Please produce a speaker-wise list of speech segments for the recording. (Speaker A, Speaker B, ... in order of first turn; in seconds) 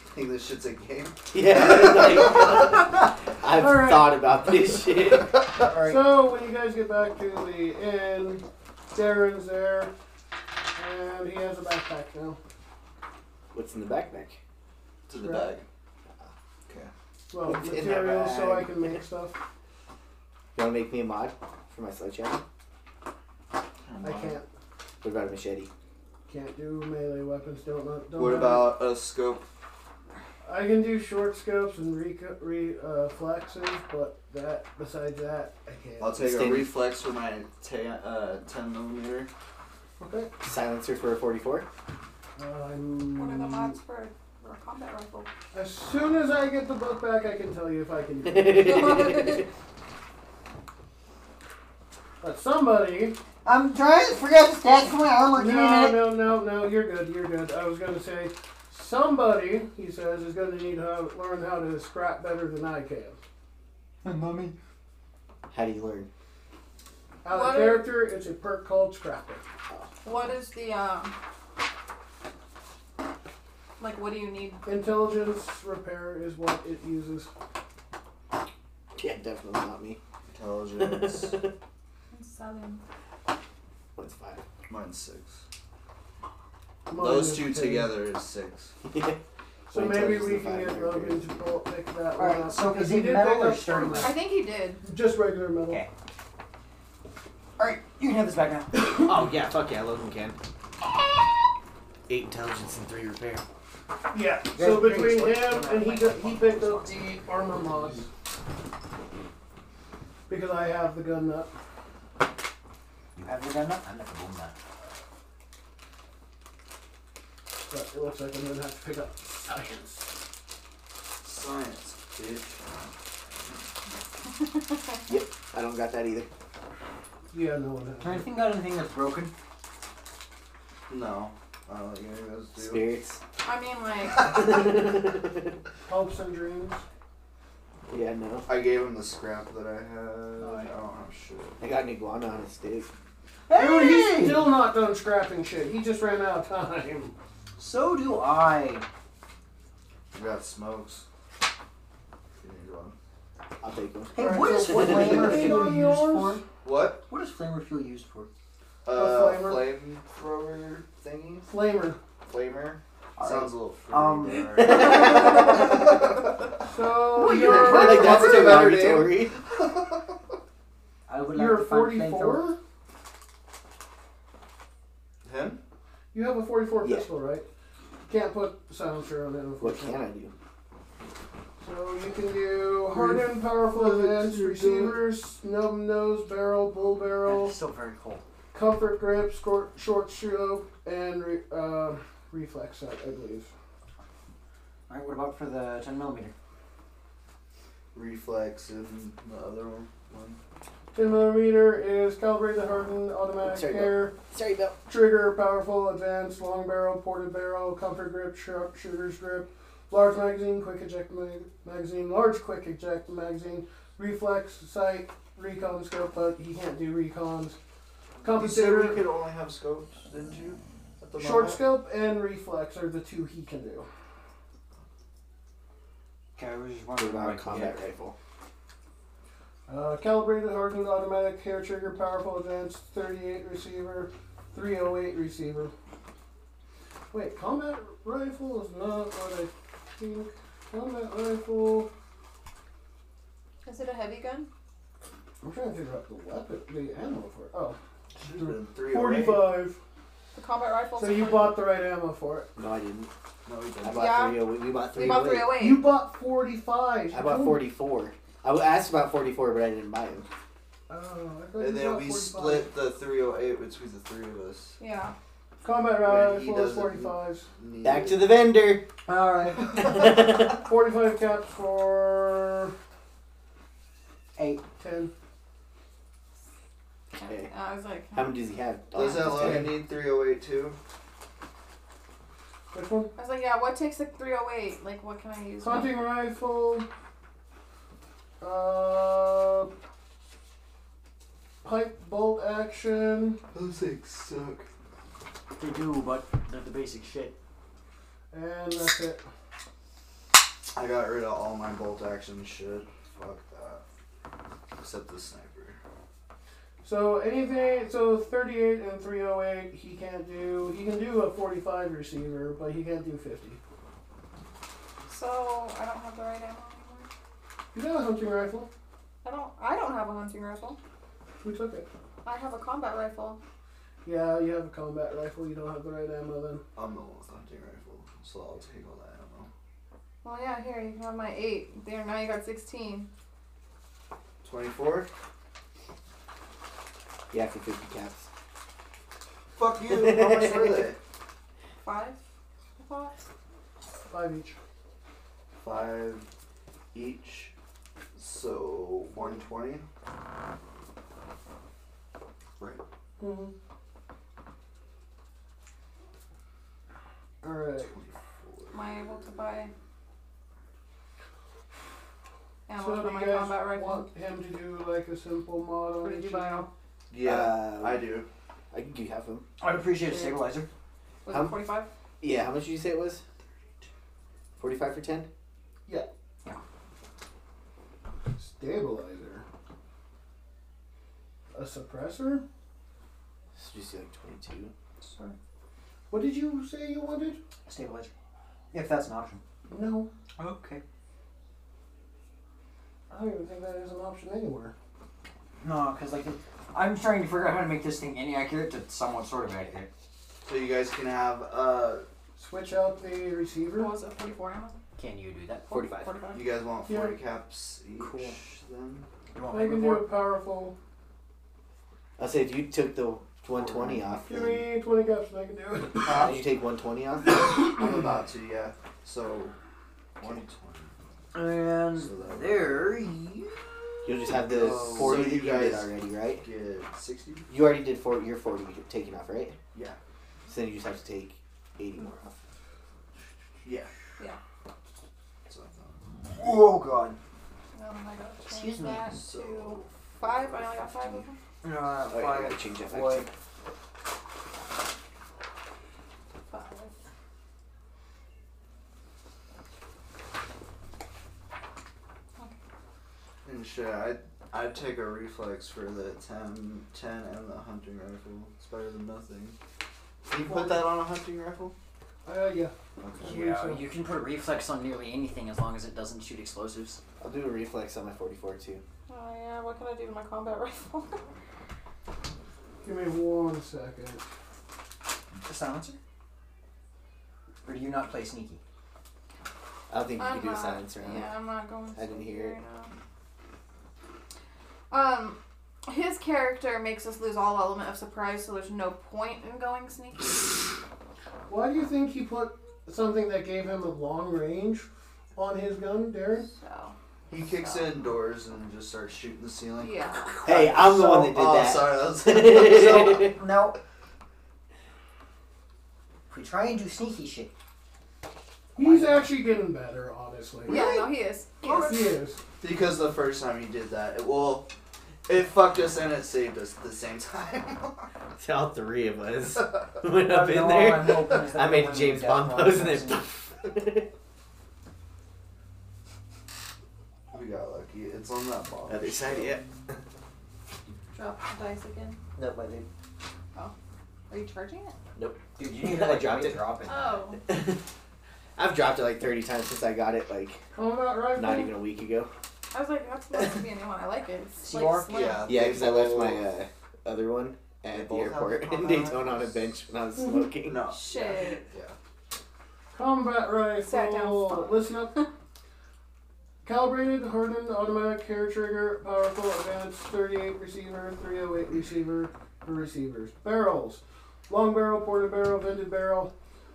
Speaker A: 0.1-2.7, 15.1-15.7, 23.8-24.4, 28.2-29.5, 36.0-39.3, 80.3-81.4, 84.7-85.4, 86.9-88.8, 121.2-122.9, 130.9-132.9, 138.5-141.6, 150.1-151.1, 152.4-153.0, 156.6-157.1, 158.8-161.5, 162.3-166.5, 167.3-170.2, 175.2-175.6, 182.9-185.0, 197.9-200.4, 218.2-221.7, 248.2-249.6, 253.4-254.2, 261.6-264.8, 266.0-268.5, 278.9-280.8, 293.5-294.7, 300.8-303.8, 304.8-305.8, 326.8-329.5, 334.4-335.1, 339.5-341.0, 345.6-346.3, 346.9-347.5, 348.1-349.9, 357.8-358.8, 367.1-368.3, 400.4-402.0, 406.3-409.1, 413.6-414.0, 416.1-416.4, 417.5-419.6, 420.2-420.9, 421.9-422.9, 424.4-427.5, 433.6-433.9, 435.5-436.6, 439.0-441.2, 453.4-459.6, 460.3-461.8, 463.0-463.4, 497.3-503.4, 512.6-514.7, 515.3-518.1, 527.3-529.6, 545.1-546.5, 547.9-549.7, 550.6-552.0
Speaker B: 1.3-6.0, 13.5-14.4, 17.4-19.0, 20.6-22.4, 25.0-25.7, 36.2-36.7, 40.4-41.7, 48.2-49.5, 65.5-66.1, 79.0-80.0, 80.8-81.5, 84.0-84.4, 88.8-91.4, 99.0-100.4, 102.1-103.4, 125.1-126.3, 132.6-133.2, 134.2-135.5, 137.9-138.5, 141.6-142.9, 153.6-155.6, 164.6-165.8, 167.6-169.4, 176.8-177.1, 179.6-180.3, 203.5-204.8, 226.9-228.2, 252.6-253.1, 253.8-255.6, 257.1-260.3, 267.8-268.9, 269.8-270.6, 278.1-279.8, 337.3-338.3, 339.9-340.9, 367.2-368.1, 368.7-369.4, 371.3-371.6, 372.2-373.2, 374.6-375.3, 383.6-384.7, 405.7-406.1, 412.2-414.6, 416.1-417.7, 424.0-426.5, 427.5-429.6, 430.5-432.4, 442.1-443.3, 467.2-468.8, 479.9-481.3, 481.9-482.6, 500.4-503.4, 518.4-524.1, 528.9-529.9, 532.4-532.9, 535.2-536.7, 537.5-537.8, 538.6-540.6, 541.4-542.3, 545.5-550.9
Speaker C: 3.5-4.2, 5.7-9.9, 10.8-12.4, 15.1-15.5, 17.3-19.4, 24.0-24.5, 26.3-28.8, 30.4-36.2, 40.0-40.3, 42.4-43.8, 45.5-48.9, 52.2-53.2, 55.3-63.2, 67.2-69.4, 74.7-77.3, 86.9-88.0, 89.7-94.2, 94.8-95.8, 104.1-108.1, 110.3-111.5, 117.7-120.1, 127.3-128.3, 135.9-136.8, 143.5-147.2, 154.2-156.4, 158.9-159.7, 161.5-162.0, 166.6-168.6, 171.3-172.6, 176.1-177.5, 178.1-180.0, 181.6-187.6, 188.5-193.5, 200.9-204.2, 204.9-217.6, 218.2-219.1, 221.2-223.9, 229.7-235.7, 237.1-241.9, 245.4-247.8, 248.3-249.8, 251.0-252.5, 255.4-257.7, 260.9-262.7, 265.6-267.5, 269.8-272.7, 274.8-275.1, 279.4-279.7, 282.7-283.1, 285.6-286.9, 288.4-289.7, 291.6-293.4, 298.3-299.2, 306.8-313.6, 317.7-318.7, 321.4-321.9, 324.0-326.6, 344.1-344.6, 353.2-353.5, 357.4-357.9, 362.8-366.7, 378.4-379.4, 381.5-382.4, 386.1-387.4, 389.7-390.1, 393.1-394.7, 402.4-403.9, 406.9-407.1, 409.5-410.8, 414.3-416.3, 460.4-460.9, 462.2-463.9, 472.8-474.2, 491.5-496.5, 508.8-510.8, 511.6-512.4, 540.7-541.8, 552.9-555.3, 556.6-566.3
Speaker D: 43.2-45.3, 48.5-49.5, 67.3-67.9, 70.0-71.2, 73.8-74.7, 82.1-82.8, 94.0-94.8, 133.4-134.7, 243.7-244.5, 250.3-251.6, 253.9-255.8, 264.8-265.1, 277.1-278.4, 279.0-279.3, 283.2-286.0, 315.1-317.1, 319.2-320.8, 322.2-323.4, 330.2-333.1, 341.8-342.2, 342.8-343.2, 349.2-349.4, 358.7-359.7, 362.7-364.0, 366.0-366.7, 370.0-370.4, 371.2-371.9, 385.0-385.4, 403.8-404.8, 405.7-406.5, 437.8-441.4, 446.5-446.9, 469.1-471.3, 480.2-482.9, 484.9-490.6, 496.6-497.9, 499.8-500.4, 510.7-512.2, 531.1-532.2, 534.3-535.0, 536.9-537.4, 542.7-545.5, 550.9-551.6, 553.8-555.2
Speaker E: 53.5-56.1, 64.0-64.5, 92.2-94.2, 97.6-99.1, 104.5-107.8, 113.2-114.5, 128.0-129.3, 140.4-140.7, 143.5-144.5, 147.6-148.9, 154.1-156.4, 157.1-158.3, 163.2-165.0, 167.1-168.7, 171.1-172.5, 187.2-188.2, 194.9-196.3, 226.4-227.8, 269.1-270.0, 274.4-274.6, 295.6-297.4, 369.6-370.7, 387.7-388.1, 388.7-389.4, 390.4-390.8, 395.6-399.9, 405.0-405.9, 408.0-408.4, 409.4-410.1, 416.1-416.4, 421.3-424.1, 424.6-425.2, 436.3-437.2, 438.5-439.1, 441.6-443.3, 463.2-467.0, 475.4-476.0, 477.6-478.6, 502.8-503.8, 506.3-507.5, 508.8-509.3, 510.7-511.0, 520.2-523.3, 535.6-537.1, 544.6-545.3